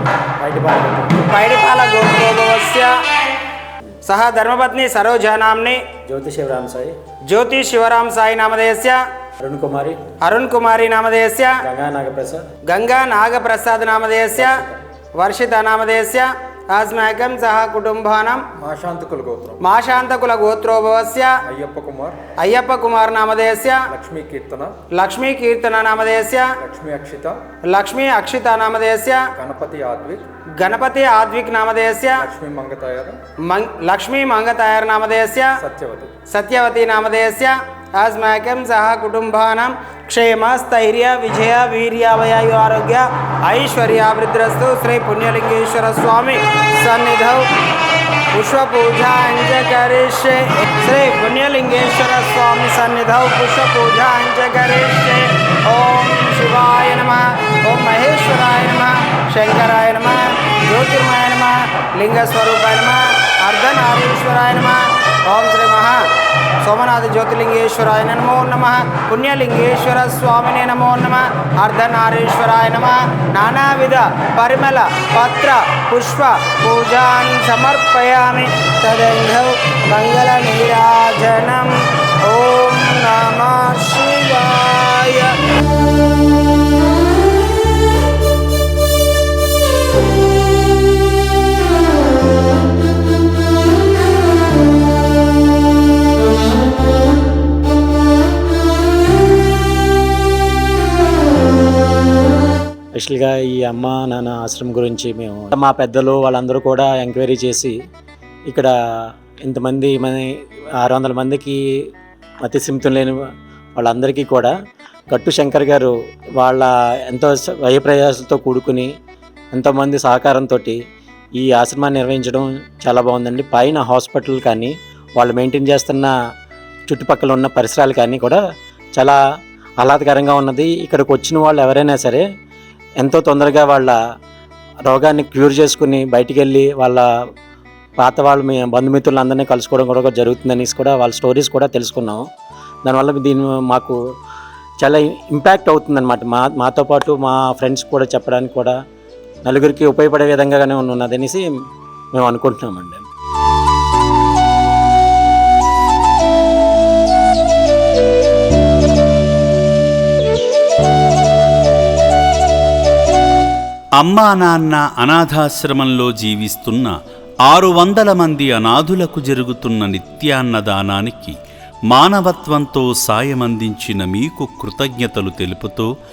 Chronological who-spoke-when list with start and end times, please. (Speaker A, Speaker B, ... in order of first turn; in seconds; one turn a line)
Speaker A: 0.4-1.2
Speaker B: 1.2-3.0
Speaker B: 4.0-5.8
Speaker A: 6.1-6.9
Speaker B: 7.3-9.0
Speaker A: 9.4-10.0
Speaker B: 10.2-11.6
Speaker A: 11.6-12.5
Speaker B: 12.7-14.6
Speaker A: 14.4-14.7
Speaker B: 15.2-18.4
Speaker C: 18.6-19.6
Speaker B: 19.6-21.4
Speaker C: 21.4-22.2
Speaker B: 22.4-23.9
Speaker C: 23.9-24.7
Speaker B: 24.9-26.5
Speaker C: 26.6-27.4
Speaker B: 27.6-29.2
Speaker C: 29.4-30.2
Speaker B: 30.6-32.2
Speaker C: 32.2-33.2
Speaker B: 33.5-35.5
Speaker C: 35.6-36.1
Speaker B: 36.3-47.4
Speaker B: 48.3-66.0
Speaker B: 66.6-81.7
Speaker B: 82.2-85.3
Speaker A: 103.0-107.8
Speaker A: 108.5-111.6
Speaker A: 112.4-113.2
Speaker A: 113.8-114.5
Speaker A: 115.1-118.9
Speaker A: 119.5-120.8
Speaker A: 121.4-126.1
Speaker A: 126.9-128.4
Speaker A: 129.8-132.2
Speaker A: 133.0-133.9
Speaker A: 134.9-137.1
Speaker A: 138.0-142.2
Speaker A: 142.8-144.0
Speaker A: 144.8-148.8
Speaker A: 149.5-151.4
Speaker A: 152.2-153.0
Speaker D: 164.0-166.9
Speaker D: 167.5-171.4
Speaker D: 171.9-175.9